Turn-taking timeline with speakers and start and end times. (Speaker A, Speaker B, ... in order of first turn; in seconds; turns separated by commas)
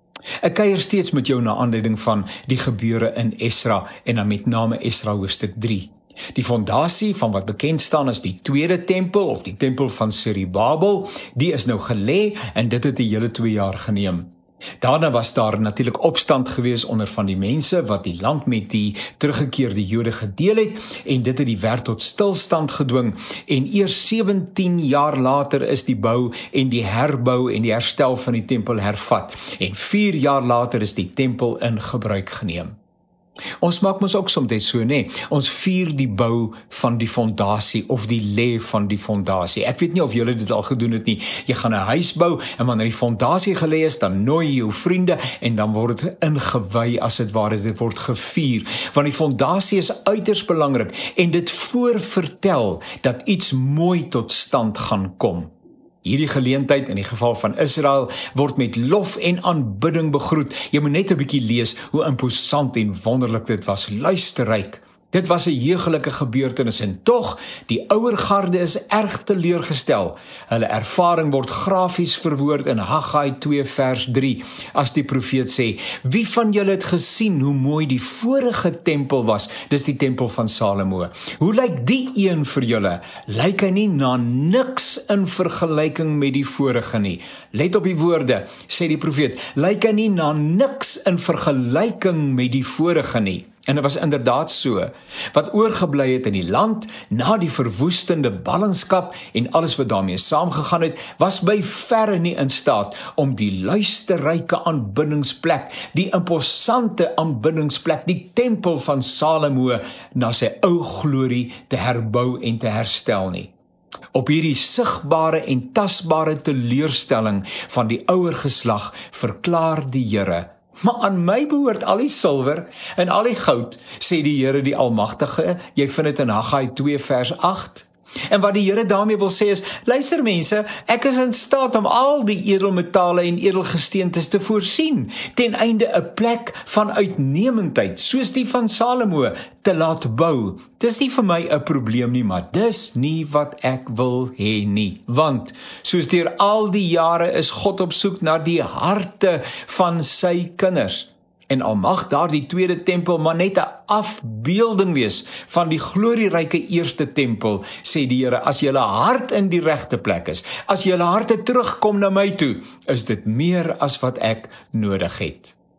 Speaker A: 0.4-14.3, Speaker A: 14.8-32.7, Speaker A: 33.6-55.5, Speaker A: 56.0-113.5, Speaker A: 114.1-165.5